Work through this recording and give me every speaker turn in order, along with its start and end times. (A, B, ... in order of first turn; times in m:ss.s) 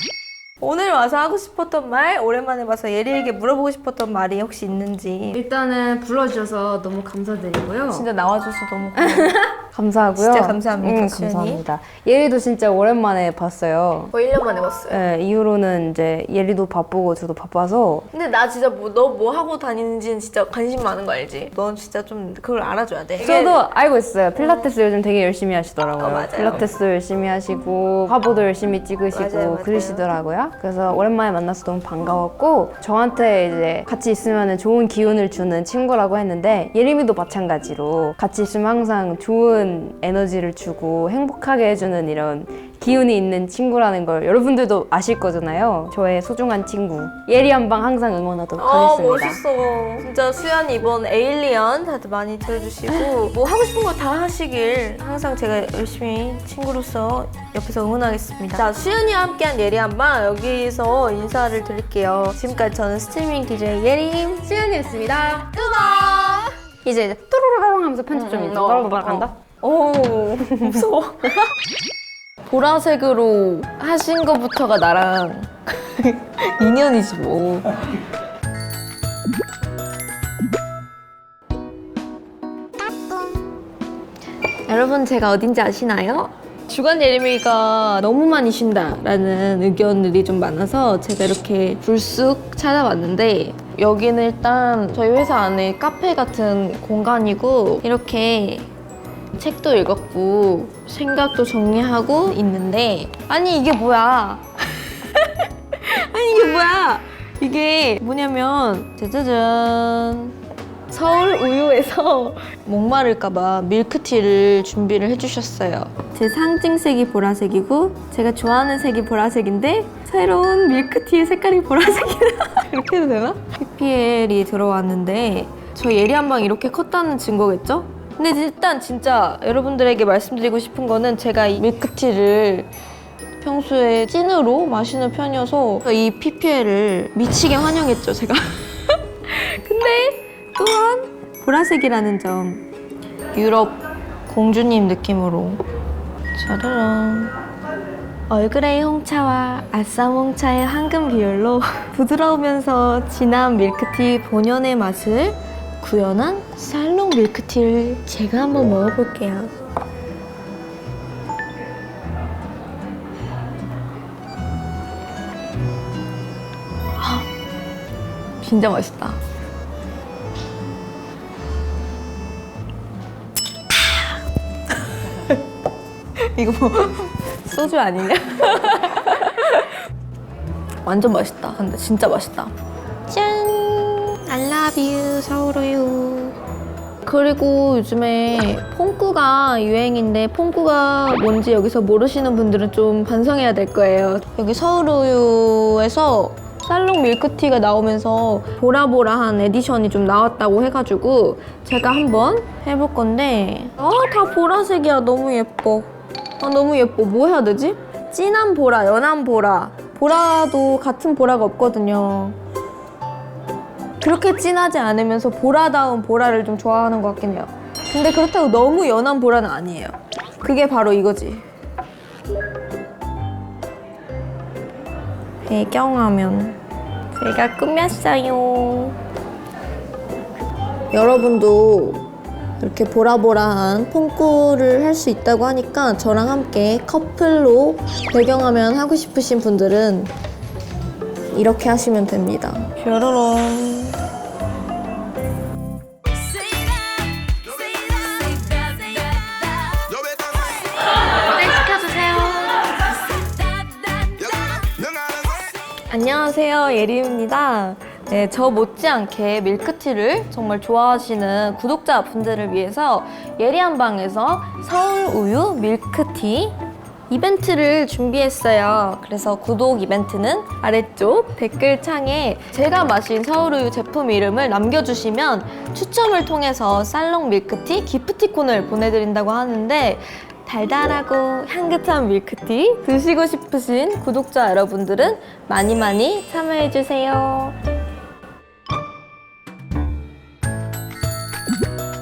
0:00.6-0:05.4 A
0:05.3-0:08.1 B
0:07.9-0:09.4 A
0:09.0-0:14.1 B
0:10.2-0:11.6 A
0:14.1-0:15.0 A
0:14.9-0:18.1 B
0:18.1-0:23.6 A
0:23.2-0:49.4 B
0:24.4-0:24.6 A
0:26.0-0:26.7 A
0:29.1-0:30.1 A
0:48.6-1:04.5 A
1:04.4-1:05.6 B
1:05.5-1:06.6 A
1:06.8-1:09.3 B
1:08.1-1:11.5 A
1:10.4-1:10.9 B
1:12.5-1:17.8 A
1:24.7-1:38.7 A
1:39.3-1:50.4 A
1:50.9-2:12.7 A
2:13.4-2:22.6 A
2:23.3-2:25.6 A
2:26.3-2:27.3 A
2:28.3-2:39.5 A
2:47.0-2:47.2 A
2:48.4-2:49.2 A
2:55.0-2:55.4 A
2:56.2-2:59.8 A
3:00.8-3:02.5 A
3:03.1-3:06.4 A
3:07.0-3:32.4 A
3:34.0-3:41.4 A
3:45.5-3:46.6 A
3:47.2-3:49.0 A
3:50.9-3:52.0 A
3:52.6-4:00.1 A
4:01.3-4:04.0 A
4:06.1-4:09.8 A
4:11.2-4:12.8 A
4:13.4-4:14.1 A
4:15.9-4:26.6 A
4:27.1-4:47.6 A